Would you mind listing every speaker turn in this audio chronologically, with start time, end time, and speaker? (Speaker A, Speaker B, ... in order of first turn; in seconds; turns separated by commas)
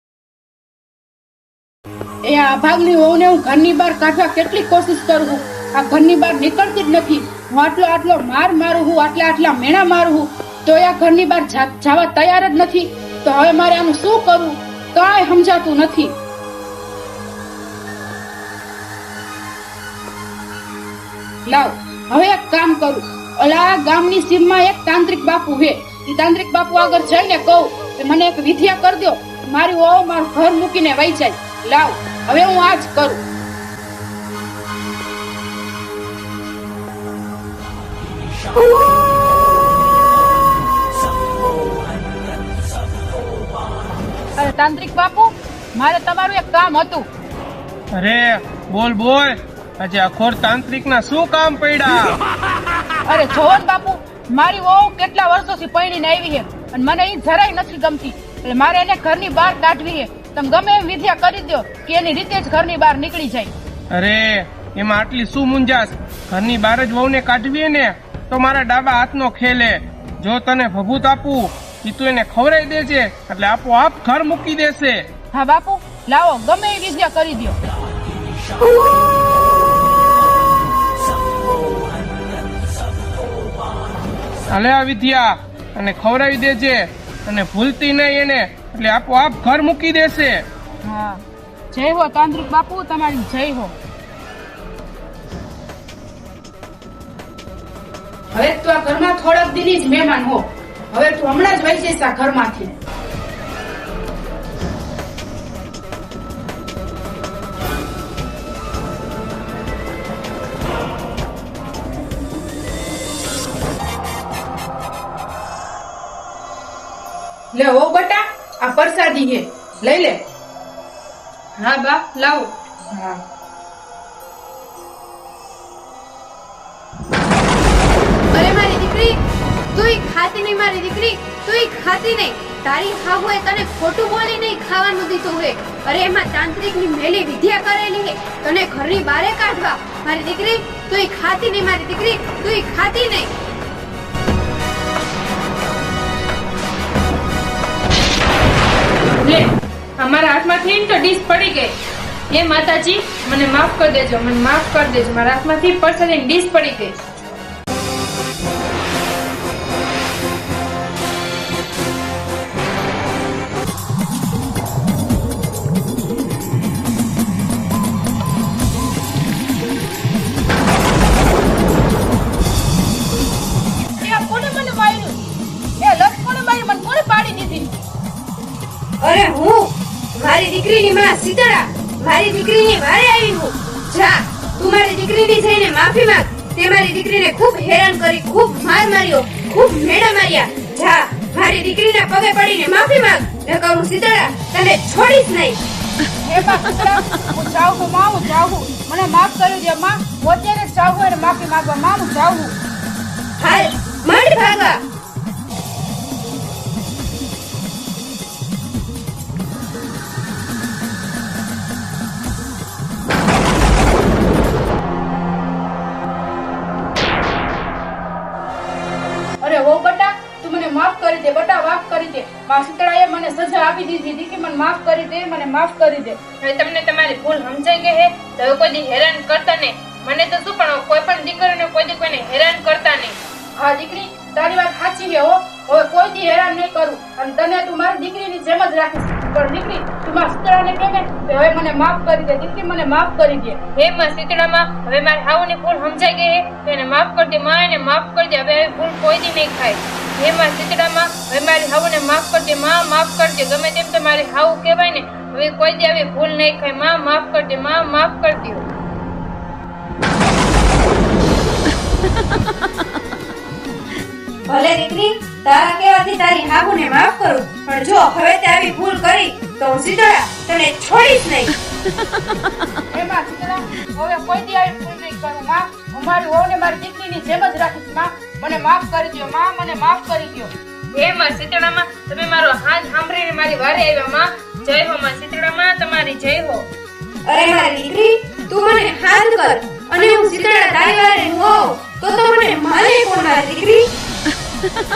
Speaker A: 2.2-16.1, Speaker A: 21.5-33.2, Speaker A: 44.4-47.1, Speaker B: 48.0-52.2, Speaker A: 53.0-63.5, Speaker B: 63.9-75.0, Speaker A: 75.3-77.6, Speaker B: 84.5-90.4, Speaker A: 90.8-93.8, Speaker A: 98.3-102.8, Speaker A: 117.5-120.2, Speaker C: 121.6-122.5, Speaker A: 122.9-123.2, Speaker D: 128.3-129.2, Speaker D: 129.7-143.3, Speaker C: 149.2-151.7, Speaker C: 152.3-157.0, Speaker A: 173.8-175.2, Speaker A: 175.8-177.8, Speaker D: 179.0-195.6, Speaker A: 196.2-202.5, Speaker D: 203.4-204.8, Speaker A: 219.4-226.2, Speaker C: 226.4-233.2, Speaker A: 233.6-243.6, Speaker C: 243.8-258.6, Speaker D: 264.5-271.5, Speaker A: 272.9-280.5, Speaker C: 280.9-286.7, Speaker D: 287.3-293.9